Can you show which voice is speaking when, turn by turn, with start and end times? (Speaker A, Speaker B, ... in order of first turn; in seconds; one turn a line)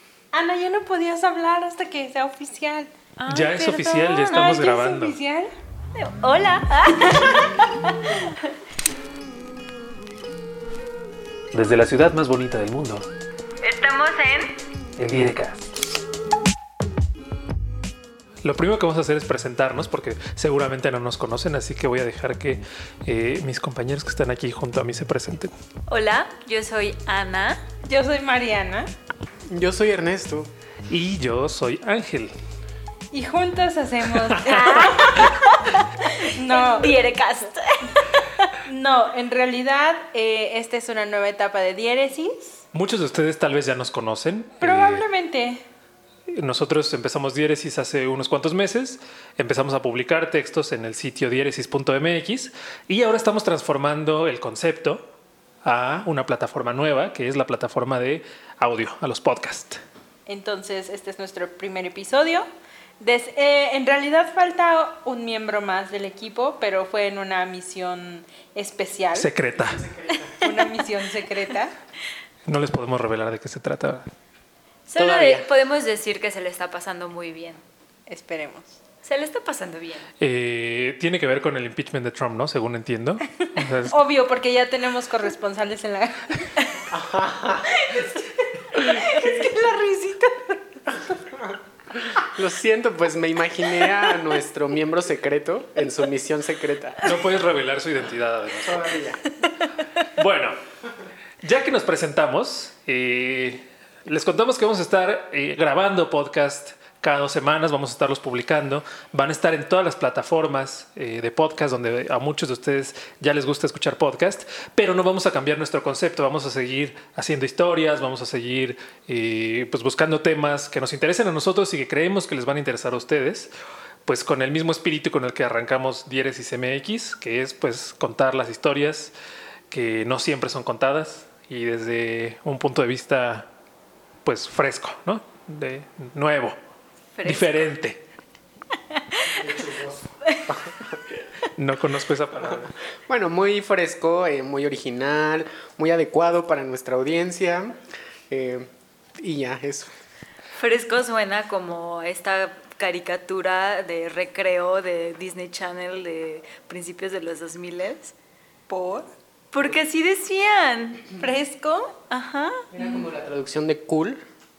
Speaker A: 0.3-2.9
Speaker B: 3.2-4.4
Speaker C: 3.3-5.2
Speaker A: 3.6-5.5
Speaker B: 6.0-8.3
Speaker C: 11.5-13.1
Speaker B: 13.6-14.5
Speaker C: 15.0-15.6
Speaker C: 18.4-25.5
Speaker B: 25.9-27.6
Speaker A: 27.9-28.9
Speaker D: 29.5-30.5
Speaker C: 30.9-32.3
Speaker A: 33.1-35.3
Speaker B: 34.4-38.5
Speaker A: 36.2-36.9
Speaker A: 38.6-42.6
Speaker C: 42.7-45.0
Speaker A: 44.6-45.6
Speaker C: 46.3-55.1
Speaker C: 55.6-59.8
Speaker A: 60.3-62.5
Speaker A: 63.0-69.3
Speaker C: 69.1-69.8
Speaker D: 69.6-70.4
Speaker A: 70.4-71.7
Speaker C: 72.5-74.1
Speaker B: 74.9-77.6
Speaker D: 75.0-75.5
Speaker A: 78.1-78.8
Speaker B: 79.0-80.1
Speaker C: 80.2-84.0
Speaker A: 83.9-86.6
Speaker D: 86.9-87.7
Speaker A: 88.8-90.6
Speaker D: 88.8-89.5
Speaker D: 91.3-97.0
Speaker C: 97.0-98.9
Speaker D: 98.6-99.2
Speaker C: 100.2-100.6
Speaker C: 101.4-123.5
Speaker C: 124.0-129.1
Speaker C: 129.7-133.5
Speaker C: 134.2-136.6
Speaker B: 137.2-137.7
Speaker C: 137.2-138.0
Speaker B: 138.9-139.2
Speaker D: 139.4-141.0
Speaker C: 141.6-142.7
Speaker D: 142.4-147.8
Speaker D: 148.3-149.9
Speaker B: 150.6-158.1
Speaker A: 158.7-159.0
Speaker B: 159.5-161.1
Speaker A: 161.2-161.9
Speaker B: 162.1-162.6
Speaker D: 162.7-164.2